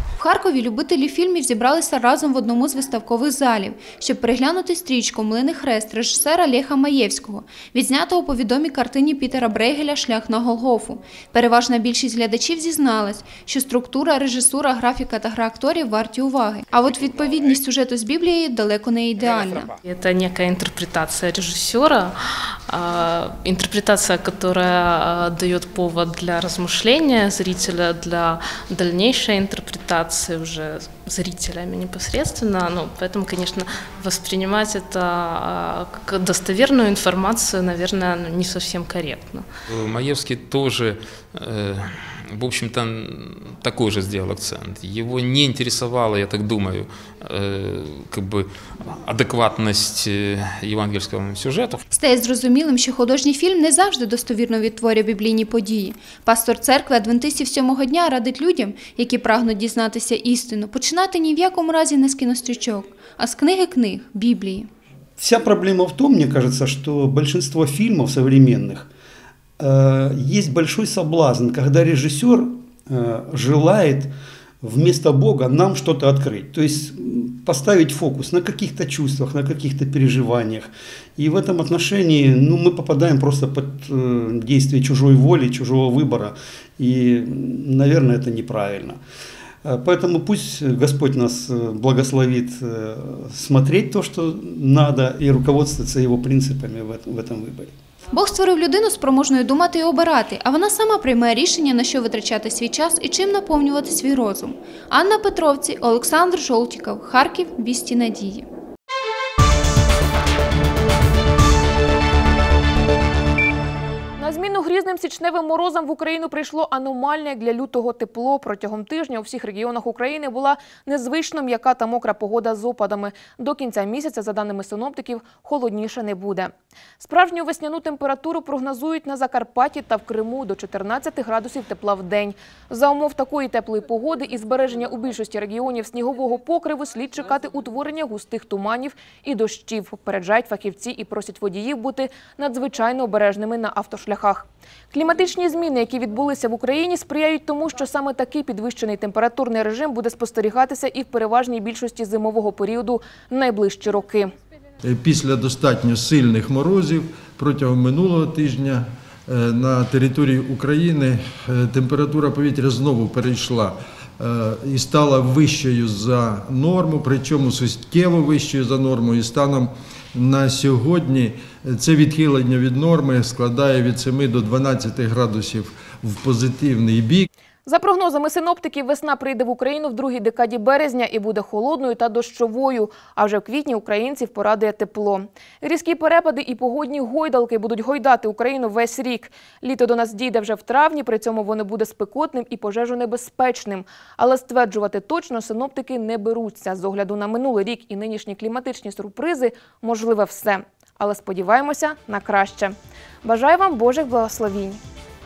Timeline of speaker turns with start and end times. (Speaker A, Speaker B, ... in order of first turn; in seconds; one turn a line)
Speaker A: 0.2-19.7
Speaker B: 19.8-22.2
Speaker B: 22.7-39.5
Speaker C: 39.7-48.5
Speaker C: 49.0-51.8
Speaker A: 51.9-64.7
Speaker D: 65.2-68.9
Speaker D: 69.6-89.0
Speaker D: 89.6-97.7
Speaker A: 98.1-108.5
Speaker E: 114.2-154.3
Speaker F: 154.8-177.3
Speaker E: 177.7-204.8